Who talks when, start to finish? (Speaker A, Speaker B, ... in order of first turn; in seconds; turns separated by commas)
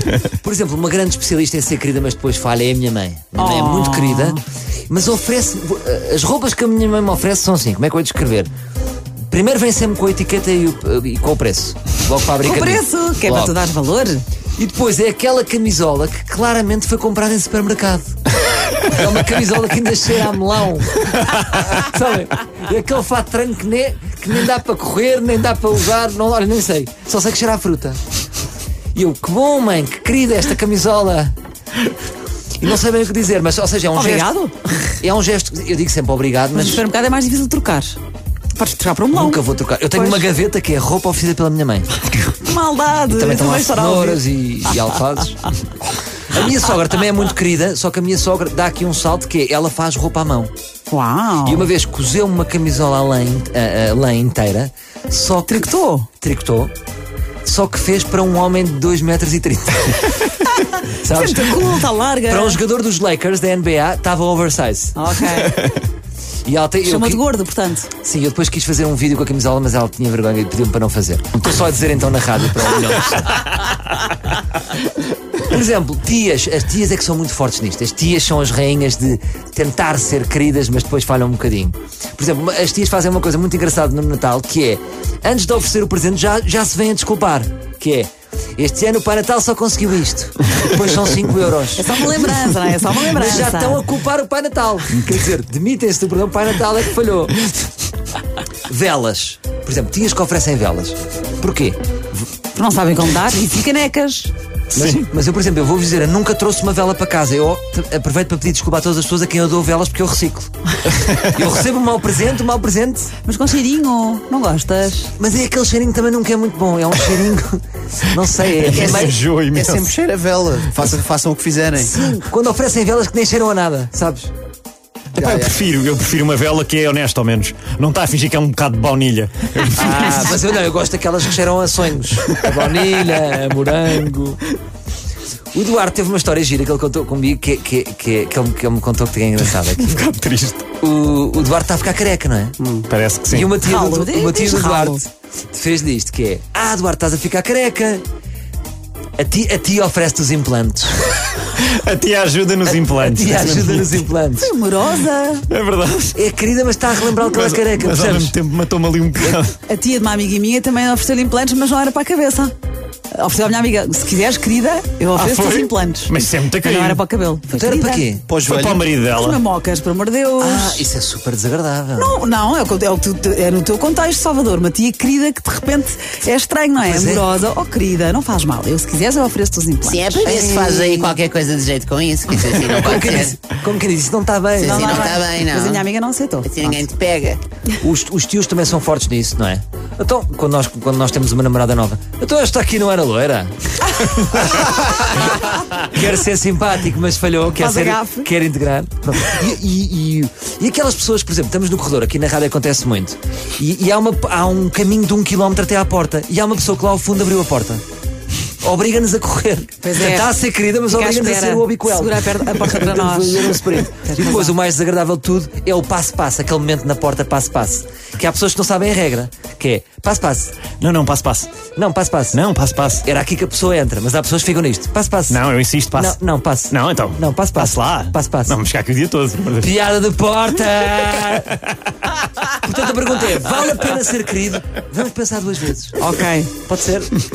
Speaker A: 0.3-4.4, Speaker B: 3.4-4.4, Speaker A: 4.9-8.5, Speaker A: 9.3-13.6, Speaker B: 12.4-14.2, Speaker A: 14.6-28.0, Speaker A: 28.9-31.3, Speaker A: 32.6-34.3, Speaker B: 33.9-34.9, Speaker A: 35.0-36.8, Speaker B: 36.5-38.0, Speaker B: 38.5-40.3, Speaker A: 39.1-41.9, Speaker B: 42.3-44.8, Speaker A: 43.1-45.5, Speaker A: 46.3-50.5, Speaker B: 50.9-51.7, Speaker A: 51.4-56.7, Speaker B: 55.5-56.1, Speaker A: 57.4-60.1, Speaker B: 60.5-62.6, Speaker A: 61.0-65.2, Speaker B: 64.9-65.6, Speaker A: 66.4-67.2, Speaker B: 66.8-67.9, Speaker A: 68.0-73.6, Speaker A: 75.4-92.0, Speaker B: 91.8-93.8, Speaker A: 93.1-97.4, Speaker A: 98.7-101.8, Speaker B: 102.5-104.3, Speaker A: 104.7-110.5, Speaker C: 104.7-105.1, Speaker C: 111.0-111.3, Speaker A: 111.2-113.1, Speaker B: 113.2-115.1, Speaker A: 115.2-119.2, Speaker C: 118.5-119.9, Speaker D: 119.5-121.9, Speaker B: 121.8-122.3, Speaker A: 122.2-124.3, Speaker C: 125.1-130.2, Speaker D: 125.2-125.5, Speaker A: 129.7-134.4, Speaker A: 135.5-140.0, Speaker C: 139.8-140.7, Speaker A: 140.8-142.6, Speaker B: 142.6-142.9, Speaker C: 142.9-143.5, Speaker A: 143.3-148.0, Speaker B: 143.6-145.1, Speaker A: 149.2-151.2, Speaker C: 151.5-154.0, Speaker A: 152.7-154.5, Speaker B: 154.4-155.5, Speaker C: 155.5-156.2, Speaker A: 156.1-158.4, Speaker C: 157.2-159.6, Speaker B: 159.7-162.5, Speaker B: 163.1-168.1, Speaker C: 165.2-167.0, Speaker A: 167.5-168.2, Speaker D: 168.3-168.8, Speaker C: 168.3-169.4, Speaker B: 169.1-170.8, Speaker A: 170.4-172.1, Speaker B: 172.0-180.4, Speaker A: 176.8-177.2, Speaker E: 179.8-183.3, Speaker A: 180.2-181.2, Speaker A: 182.7-185.1, Speaker B: 184.6-186.8, Speaker E: 184.6-185.8, Speaker E: 186.4-187.4, Speaker A: 187.8-207.8, Speaker B: 197.5-198.3, Speaker A: 208.6-220.6, Speaker B: 209.8-210.3, Speaker B: 210.9-214.5, Speaker C: 220.8-221.6, Speaker A: 221.7-222.4, Speaker C: 222.3-223.0, Speaker A: 223.0-225.4, Speaker C: 225.3-226.2, Speaker A: 225.9-228.6, Speaker C: 226.7-229.7, Speaker A: 229.6-231.7, Speaker A: 232.4-236.0, Speaker B: 236.0-236.5, Speaker A: 236.6-237.1